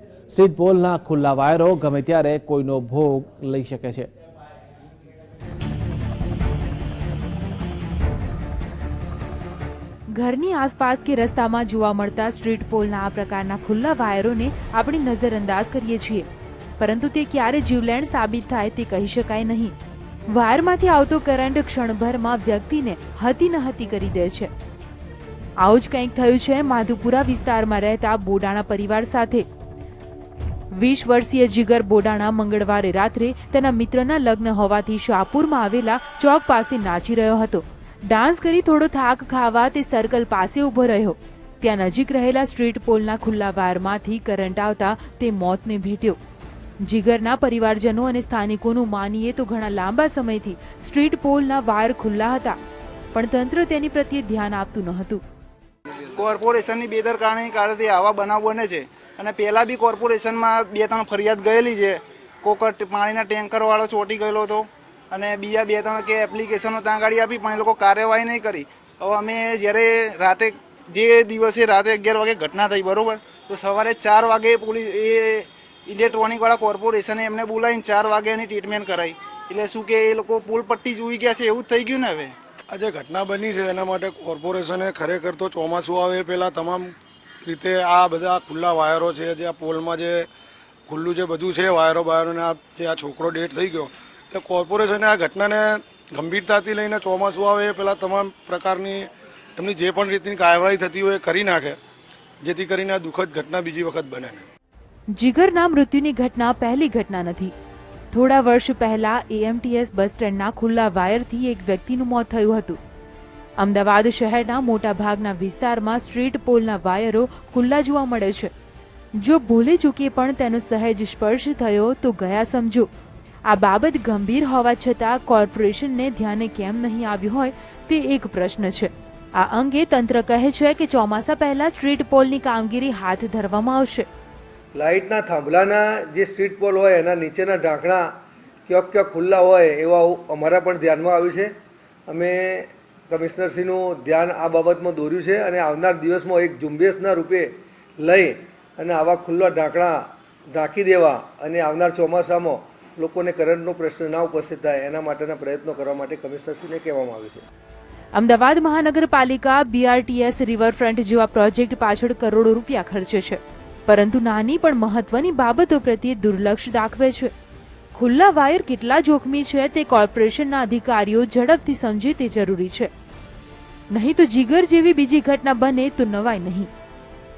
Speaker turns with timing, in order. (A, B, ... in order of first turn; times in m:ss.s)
0:00.3-0:04.1 A
0:10.1-0:16.2 B
0:16.8-0:19.7 B
0:20.3-0:24.5 B
0:25.6-0:29.4 B
0:30.8-0:46.2 B
0:46.8-0:52.6 B
0:53.1-0:55.2 B
0:56.1-1:22.3 C
1:22.7-1:26.9 D
1:27.4-1:30.3 D
1:30.9-1:41.8 D
1:42.4-1:44.4 D
1:45.1-1:47.5 B
1:48.1-1:52.8 B
1:53.6-1:58.5 B
1:59.2-2:02.9 B
2:03.5-2:14.1 B
2:14.7-2:18.1 E
2:18.6-2:21.5 E
2:22.1-2:37.4 E
2:38.1-2:47.3 B
2:47.9-2:52.9 B
2:53.9-2:56.7 B